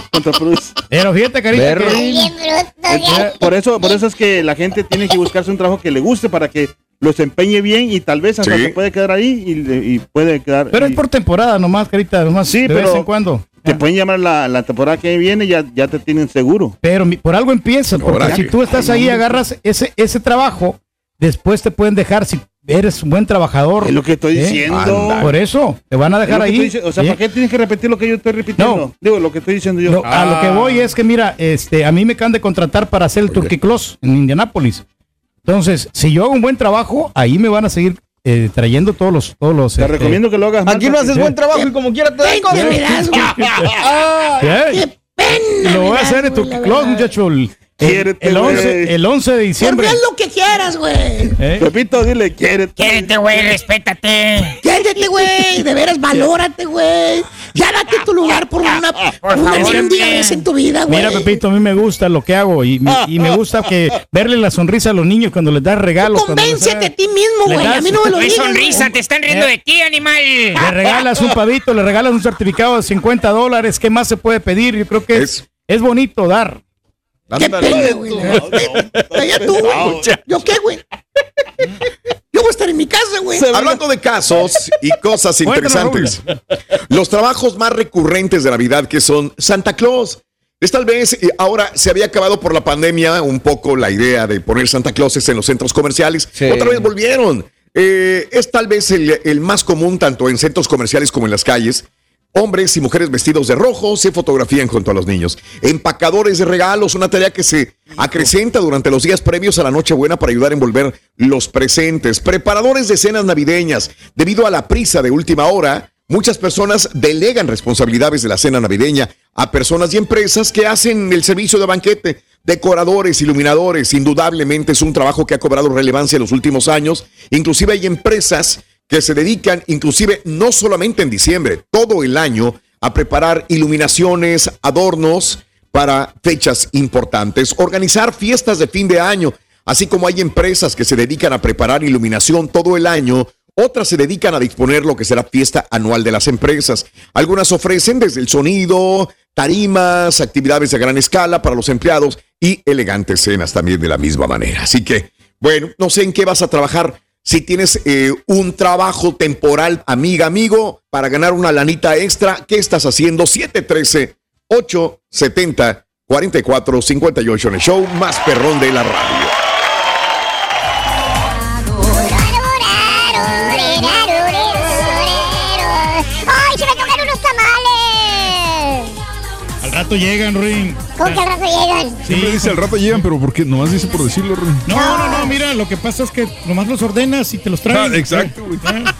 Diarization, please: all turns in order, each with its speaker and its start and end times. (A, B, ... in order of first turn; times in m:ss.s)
0:00.1-0:00.7 A
0:00.9-0:02.1 B
0:01.5-0:02.1 C
0:01.8-0:04.0 D
0:02.9-0:11.0 A
0:03.0-0:03.3 B
0:08.4-0:08.8 E
0:10.7-0:13.8 B
0:12.5-0:13.1 A
0:13.6-0:16.7 A
0:16.8-0:24.6 B
0:18.0-0:18.5 E
0:18.2-0:19.4 A
0:23.8-0:25.3 A
0:24.7-0:25.3 E
0:25.2-0:27.2 B
0:26.2-0:30.6 A
0:28.6-0:28.8 B
0:29.8-0:34.8 B
0:35.4-0:40.2 B
0:39.8-0:41.3 A
0:40.6-0:42.9 C
0:42.2-0:47.1 F
0:42.5-0:43.7 B
0:44.4-0:44.8 B
0:45.6-0:50.0 B
0:47.8-0:48.9 A
0:49.6-0:51.3 F
0:51.4-0:51.7 B
0:51.6-0:53.1 A
0:52.8-0:54.6 G
0:54.6-1:01.3 F
0:59.2-1:00.4 G
0:59.5-1:00.0 B
1:00.9-1:06.9 B
1:06.0-1:08.9 F
1:07.4-1:08.1 B
1:08.0-1:10.7 G
1:09.3-1:09.5 B
1:10.6-1:16.6 B
1:15.1-1:15.4 E
1:17.3-1:17.6 E
1:17.3-1:20.8 F
1:18.5-1:18.8 C
1:19.6-1:20.1 A
1:22.3-1:23.5 F
1:23.4-1:23.8 C
1:23.5-1:26.2 E
1:25.4-1:26.2 B
1:26.9-2:49.3 E
1:36.4-1:36.8 C
2:51.8-2:58.9 D
2:59.6-3:01.2 B
3:01.0-3:02.0 D
3:02.0-3:03.0 B
3:02.0-3:04.6 H
3:04.6-3:08.9 B
3:04.7-3:05.3 D
3:07.7-3:08.7 H